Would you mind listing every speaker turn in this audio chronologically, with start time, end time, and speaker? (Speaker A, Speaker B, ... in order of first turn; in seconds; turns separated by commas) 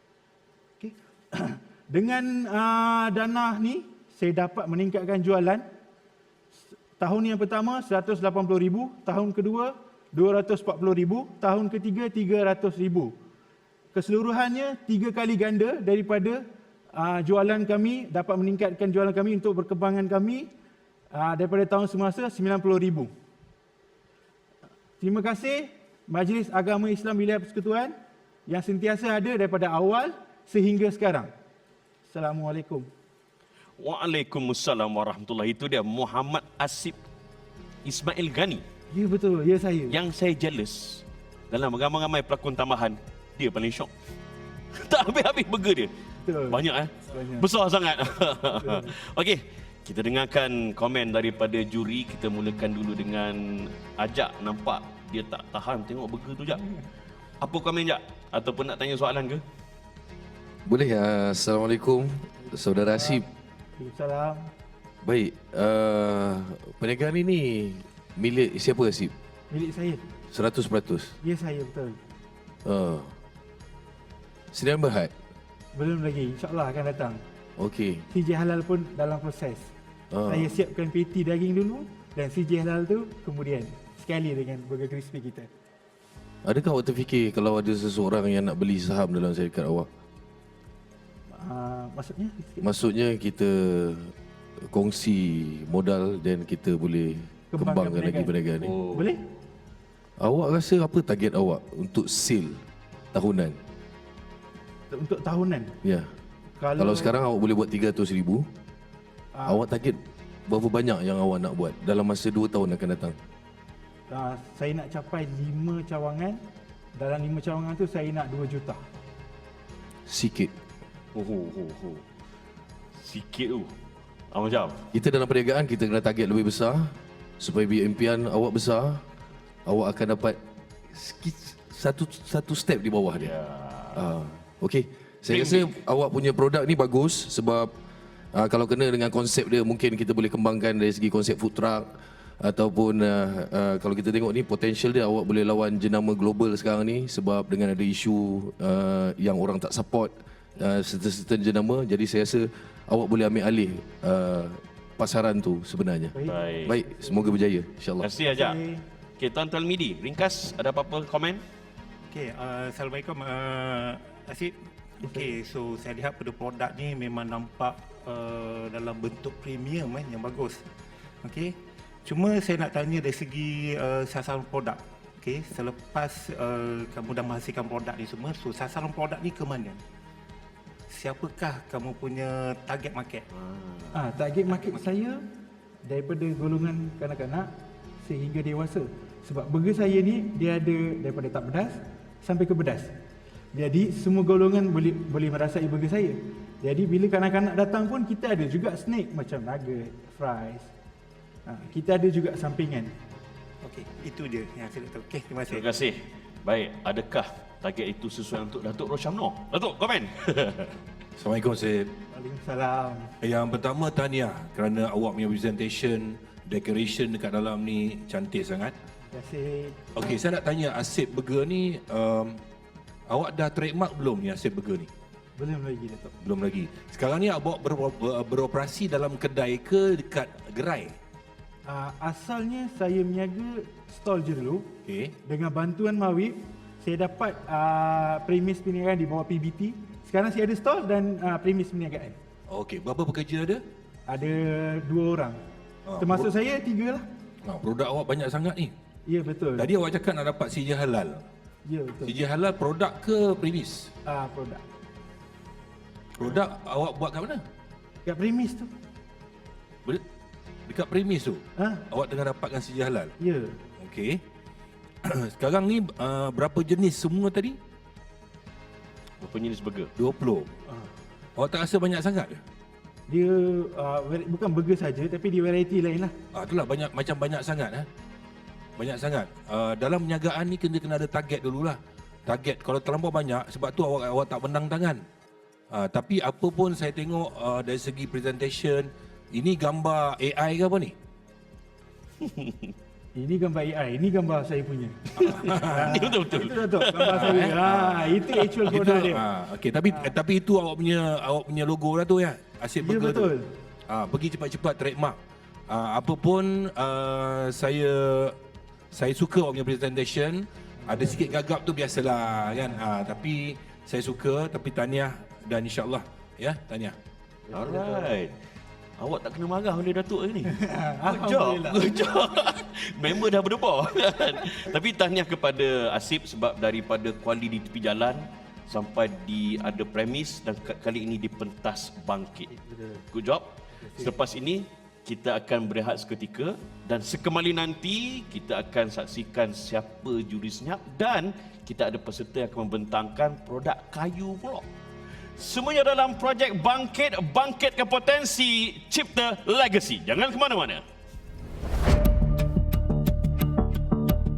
Speaker A: 0.8-5.6, Speaker A: 7.0-13.1, Speaker A: 13.9-16.4, Speaker A: 16.9-20.5, Speaker A: 21.1-23.1, Speaker A: 25.0-27.9, Speaker A: 28.5-31.3, Speaker A: 32.1-32.9, Speaker B: 33.8-37.0, Speaker B: 37.8-38.6, Speaker A: 38.9-40.0, Speaker B: 39.9-43.9, Speaker B: 44.7-45.9, Speaker A: 46.2-47.5, Speaker B: 46.5-56.7, Speaker A: 48.6-48.9, Speaker B: 57.4-59.4, Speaker C: 60.6-63.2, Speaker A: 62.9-63.2, Speaker A: 63.8-64.5, Speaker C: 65.0-69.1, Speaker A: 69.5-70.0, Speaker C: 70.3-71.2, Speaker A: 71.2-72.0, Speaker C: 72.6-73.1, Speaker C: 74.5-75.1, Speaker A: 75.7-77.2, Speaker C: 77.6-78.0, Speaker A: 78.1-79.7, Speaker C: 80.1-80.5, Speaker A: 80.3-85.5, Speaker C: 86.4-89.9, Speaker A: 91.3-92.6, Speaker C: 92.6-94.1, Speaker C: 94.7-98.8, Speaker A: 97.5-99.2, Speaker B: 98.6-99.0, Speaker C: 100.2-102.6, Speaker C: 103.1-103.6, Speaker A: 104.9-105.8, Speaker C: 105.8-106.1, Speaker A: 106.6-107.1, Speaker C: 106.8-108.5, Speaker A: 109.3-109.7, Speaker C: 109.4-113.2, Speaker A: 114.1-116.4, Speaker A: 117.0-118.8, Speaker C: 120.0-120.5, Speaker B: 121.1-122.0, Speaker B: 123.0-123.7, Speaker B: 124.3-124.8, Speaker C: 124.9-129.0, Speaker C: 129.7-130.4, Speaker C: 130.9-133.3, Speaker B: 133.2-134.1, Speaker C: 133.9-137.7, Speaker B: 135.3-135.7, Speaker C: 138.3-158.1, Speaker A: 156.1-157.3, Speaker B: 156.3-156.7, Speaker B: 158.0-158.6, Speaker A: 158.2-158.8, Speaker B: 159.2-161.4, Speaker D: 162.1-170.7, Speaker D: 171.2-179.8, Speaker D: 180.9-183.2, Speaker B: 183.4-183.9, Speaker A: 183.9-185.2, Speaker D: 184.5-184.9, Speaker A: 185.8-187.5, Speaker A: 188.0-192.9, Speaker A: 193.5-200.7, Speaker A: 201.4-202.9, Speaker D: 203.6-205.7, Speaker B: 205.5-210.8, Speaker E: 211.2-211.9, Speaker A: 212.1-213.1, Speaker E: 213.2-218.7, Speaker A: 219.1-219.8, Speaker E: 219.9-222.4, Speaker E: 223.1-224.9, Speaker A: 225.4-226.1, Speaker E: 226.2-230.9, Speaker A: 231.7-234.7, Speaker E: 234.8-235.1, Speaker A: 235.2-242.2, Speaker E: 242.5-243.6, Speaker A: 244.1-245.4, Speaker E: 245.8-246.3, Speaker A: 246.0-247.0, Speaker E: 247.4-248.7, Speaker A: 249.1-249.7, Speaker E: 249.6-251.2, Speaker A: 251.7-252.1, Speaker E: 252.0-253.9, Speaker A: 254.1-254.6, Speaker E: 256.1-257.4, Speaker A: 258.0-258.7, Speaker E: 260.7-263.1, Speaker A: 261.6-261.8, Speaker A: 263.2-263.6, Speaker E: 263.8-264.2, Speaker E: 265.0-267.6, Speaker B: 269.2-269.9, Speaker E: 269.9-270.5, Speaker E: 271.4-272.4, Speaker A: 273.1-276.1, Speaker E: 276.3-277.9, Speaker E: 278.8-285.0, Speaker E: 285.7-290.9, Speaker B: 292.2-292.7, Speaker A: 293.1-299.2, Speaker B: 295.2-297.4, Speaker E: 295.5-295.9, Speaker E: 296.9-303.3, Speaker A: 302.8-303.4, Speaker E: 303.9-305.2, Speaker E: 305.7-308.4, Speaker E: 308.9-316.9, Speaker A: 310.9-311.3, Speaker B: 317.5-318.3, Speaker B: 319.0-332.5, Speaker A: 320.5-321.9, Speaker B: 333.1-344.7, Speaker B: 345.4-350.8